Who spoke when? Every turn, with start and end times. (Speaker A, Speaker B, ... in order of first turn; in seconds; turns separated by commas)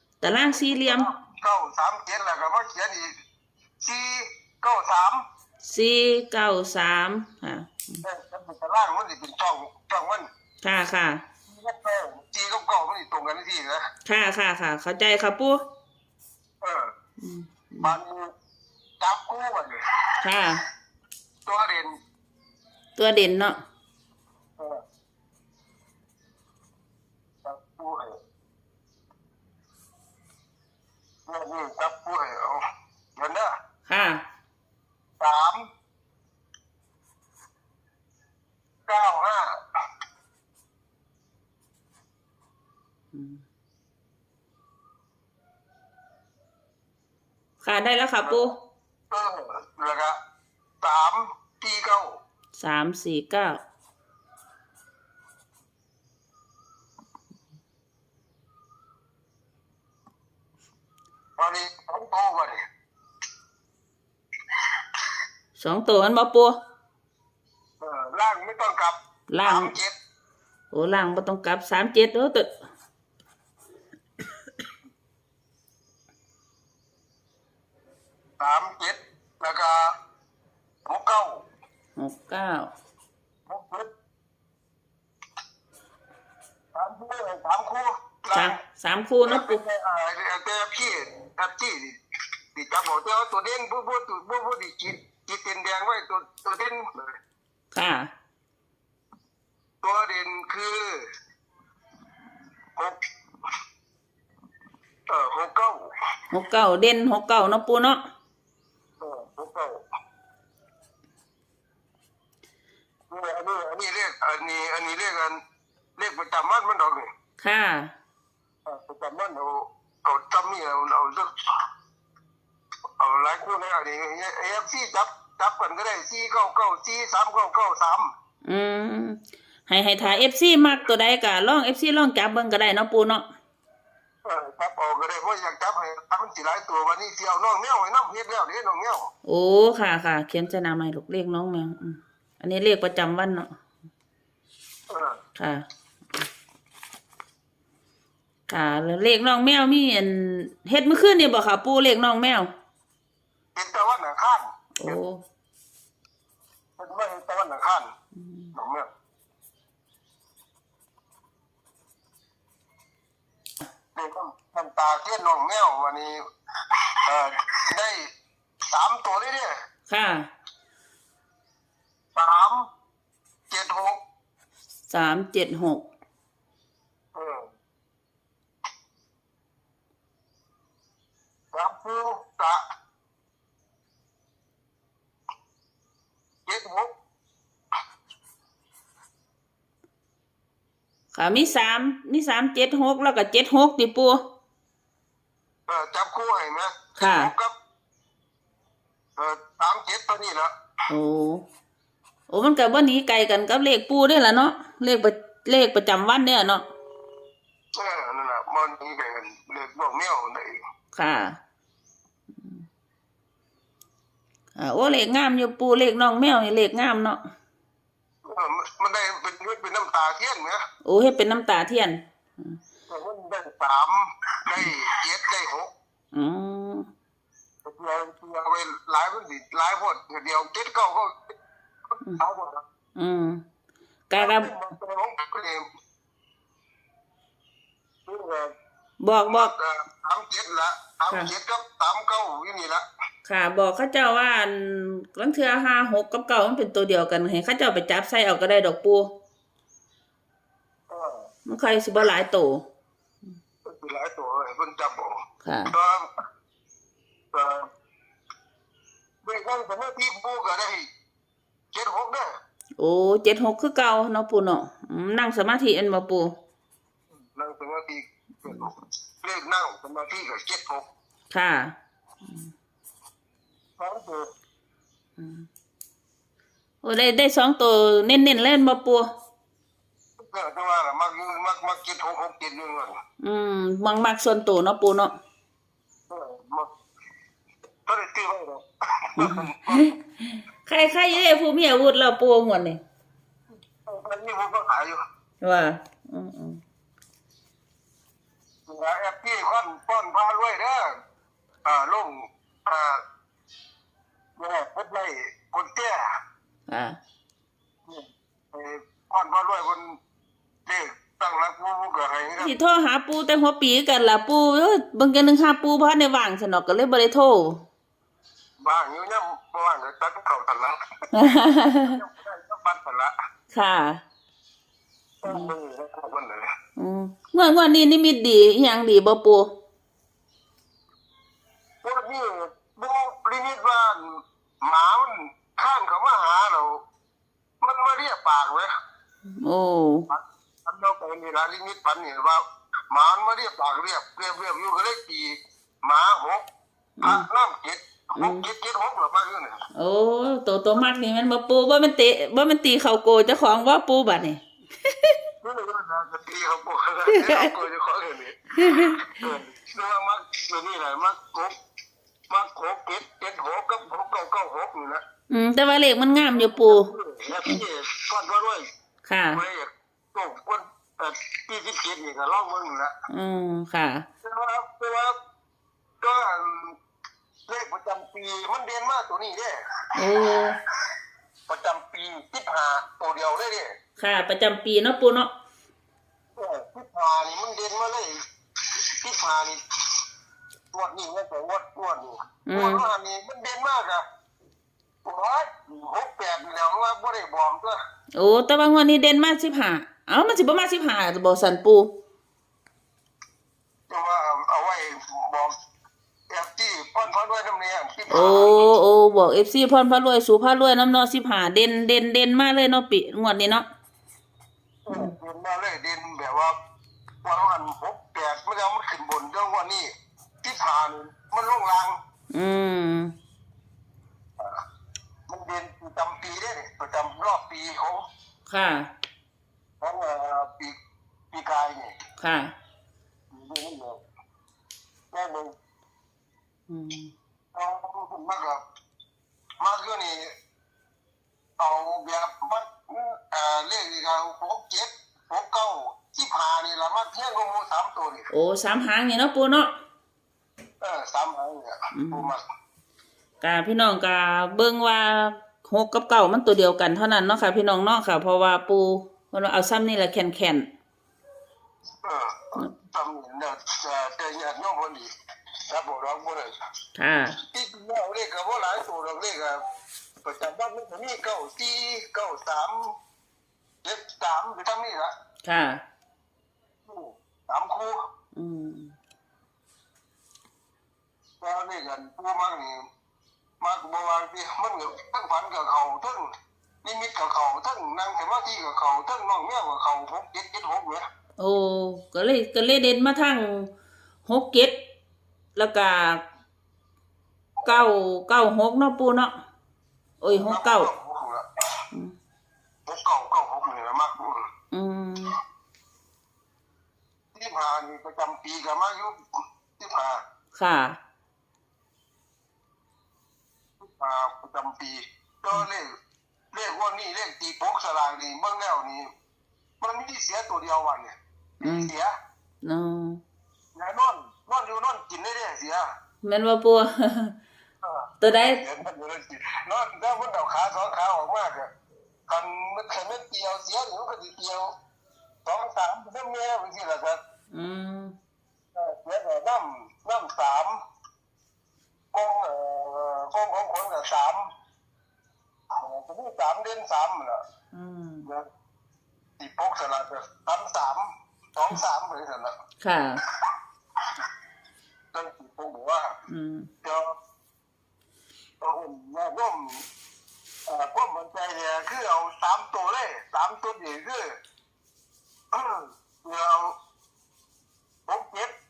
Speaker A: 0.2-1.1, Speaker B: 0.2-3.1, Speaker B: 3.8-5.2, Speaker A: 5.6-8.0, Speaker B: 8.0-10.3, Speaker A: 10.6-11.2, Speaker B: 11.5-13.8, Speaker A: 14.1-15.6, Speaker B: 16.6-16.9, Speaker A: 17.2-17.9, Speaker B: 17.8-18.3, Speaker B: 19.0-19.8, Speaker A: 20.2-20.6, Speaker B: 21.4-21.9, Speaker A: 23.0-23.6, Speaker B: 27.4-28.2, Speaker B: 31.3-32.6, Speaker B: 33.2-33.5, Speaker A: 33.9-34.2, Speaker B: 35.2-35.6, Speaker B: 38.9-39.5, Speaker A: 43.1-43.4, Speaker A: 47.6-48.5, Speaker B: 49.1-50.1, Speaker B: 50.8-52.1, Speaker A: 52.6-53.6, Speaker B: 61.4-62.6, Speaker A: 65.6-66.6, Speaker B: 67.8-69.9, Speaker A: 69.3-69.7, Speaker A: 70.7-72.5, Speaker B: 78.4-79.8, Speaker B: 80.8-81.4, Speaker A: 82.0-82.7, Speaker B: 83.5-83.9, Speaker B: 86.7-88.6, Speaker A: 88.3-89.6, Speaker B: 89.2-92.0, Speaker B: 92.5-97.1, Speaker A: 97.7-98.1, Speaker B: 99.8-101.0, Speaker B: 105.1-105.9, Speaker A: 106.3-108.0, Speaker B: 109.0-109.8, Speaker B: 113.1-115.4, Speaker B: 116.0-117.1, Speaker A: 117.4-117.9, Speaker B: 118.6-121.3, Speaker B: 123.0-128.1, Speaker A: 128.4-133.2, Speaker B: 130.0-130.9, Speaker B: 134.2-139.1, Speaker A: 139.2-143.5, Speaker B: 144.9-145.2, Speaker A: 148.5-152.5, Speaker B: 153.5-155.0, Speaker A: 154.8-155.2, Speaker B: 156.8-157.9, Speaker B: 158.5-158.9, Speaker B: 163.9-166.2, Speaker B: 167.0-168.0, Speaker B: 168.7-169.5, Speaker A: 169.9-170.3, Speaker B: 172.1-172.7, Speaker B: 173.5-174.0, Speaker A: 174.9-175.8, Speaker B: 177.1-177.4, Speaker B: 181.5-182.6, Speaker B: 186.4-186.9, Speaker A: 191.1-194.2, Speaker B: 195.7-197.5, Speaker A: 197.0-197.3, Speaker B: 199.2-200.5, Speaker A: 200.9-201.4, Speaker A: 202.3-206.6, Speaker B: 207.8-210.6, Speaker A: 210.9-211.4, Speaker A: 214.6-217.2, Speaker B: 218.2-220.6, Speaker A: 220.8-222.6, Speaker B: 222.9-225.7, Speaker A: 226.1-226.9, Speaker B: 227.6-231.3, Speaker B: 231.9-232.6, Speaker A: 232.9-233.4, Speaker A: 234.1-234.5, Speaker B: 234.2-235.6, Speaker B: 238.1-238.5, Speaker A: 239.0-239.5, Speaker B: 239.3-242.8, Speaker A: 243.2-249.1, Speaker B: 250.9-251.3, Speaker A: 251.4-252.7, Speaker B: 253.6-255.2, Speaker A: 255.4-255.7, Speaker B: 255.7-256.1, Speaker B: 257.3-257.7, Speaker B: 259.2-260.9, Speaker B: 261.7-262.3, Speaker A: 262.8-266.3, Speaker B: 267.3-270.9, Speaker A: 271.3-271.7, Speaker B: 273.8-274.3, Speaker A: 275.2-275.5, Speaker A: 276.8-279.1, Speaker B: 280.2-282.9, Speaker A: 283.2-285.1, Speaker B: 286.1-286.7, Speaker B: 287.9-289.9, Speaker A: 289.2-292.8, Speaker B: 293.9-295.0, Speaker A: 295.4-296.6, Speaker B: 298.7-300.9, Speaker B: 301.6-303.0, Speaker B: 304.4-306.0, Speaker A: 306.7-307.0, Speaker B: 307.9-309.9, Speaker B: 310.6-312.5, Speaker A: 312.4-317.6, Speaker B: 318.6-320.8, Speaker A: 321.1-322.0, Speaker B: 321.8-323.1, Speaker A: 323.5-324.0, Speaker B: 325.2-326.5, Speaker A: 325.2-325.5, Speaker A: 326.8-329.5, Speaker B: 331.8-334.0, Speaker B: 334.6-336.8, Speaker B: 337.6-338.7, Speaker A: 339.3-340.1, Speaker B: 340.1-346.4, Speaker A: 347.0-347.2, Speaker B: 347.0-349.5, Speaker A: 348.2-348.5, Speaker A: 349.8-355.2, Speaker B: 355.4-361.5, Speaker A: 357.1-357.5, Speaker A: 358.6-359.3, Speaker B: 362.3-365.0, Speaker A: 365.3-366.9, Speaker B: 366.3-368.7, Speaker A: 369.1-369.4, Speaker B: 369.3-372.9, Speaker A: 373.1-374.0, Speaker B: 374.2-375.1, Speaker B: 376.0-376.8, Speaker B: 377.5-379.6, Speaker A: 379.9-380.6, Speaker B: 381.5-383.7, Speaker A: 384.0-385.3, Speaker B: 386.4-388.1, Speaker B: 388.8-389.6, Speaker B: 390.7-394.0, Speaker A: 392.5-392.8, Speaker B: 395.0-397.8, Speaker A: 398.1-401.9, Speaker B: 403.9-405.5, Speaker B: 406.3-408.7, Speaker A: 408.1-413.6, Speaker B: 414.9-416.5, Speaker B: 417.2-419.9, Speaker B: 420.4-422.0, Speaker A: 422.3-423.1, Speaker B: 425.3-428.0, Speaker A: 428.5-428.9, Speaker B: 429.8-430.7, Speaker B: 431.3-431.9, Speaker A: 432.2-432.5, Speaker B: 433.3-434.0, Speaker B: 435.1-435.5, Speaker A: 436.7-437.1, Speaker B: 437.5-438.6, Speaker B: 439.6-440.3, Speaker B: 441.6-448.3, Speaker A: 448.3-449.7, Speaker B: 450.8-452.4, Speaker A: 451.9-452.3, Speaker A: 453.4-460.7, Speaker B: 462.0-465.1, Speaker B: 465.6-466.5, Speaker A: 466.9-467.4, Speaker B: 467.5-469.6, Speaker B: 470.2-472.9, Speaker B: 473.8-475.1, Speaker A: 475.4-475.8, Speaker B: 476.9-477.9, Speaker A: 478.3-478.9, Speaker B: 481.4-482.8, Speaker B: 483.6-486.3, Speaker B: 486.8-491.0, Speaker A: 491.4-493.7, Speaker A: 494.2-494.7, Speaker A: 495.6-496.2, Speaker A: 497.6-499.4, Speaker A: 500.2-500.9, Speaker B: 500.3-501.5, Speaker B: 502.9-504.4, Speaker A: 504.7-505.4, Speaker B: 507.3-509.2, Speaker B: 509.8-510.2, Speaker A: 510.5-511.0, Speaker B: 513.8-515.9, Speaker B: 516.5-519.1, Speaker B: 519.8-522.1, Speaker A: 521.6-521.9, Speaker A: 522.6-523.2, Speaker B: 523.7-525.9, Speaker A: 526.2-527.3, Speaker B: 527.8-531.7, Speaker A: 528.2-528.6, Speaker B: 532.3-534.7, Speaker B: 535.4-537.2, Speaker A: 537.5-538.1, Speaker B: 538.7-540.8, Speaker B: 542.1-544.4, Speaker B: 545.8-547.4, Speaker A: 547.7-548.3, Speaker B: 549.4-552.5, Speaker A: 552.8-553.2, Speaker B: 555.1-556.1, Speaker A: 556.3-556.7, Speaker B: 556.8-557.1, Speaker B: 558.6-559.8, Speaker B: 560.7-564.3, Speaker B: 565.5-566.7, Speaker B: 568.1-568.5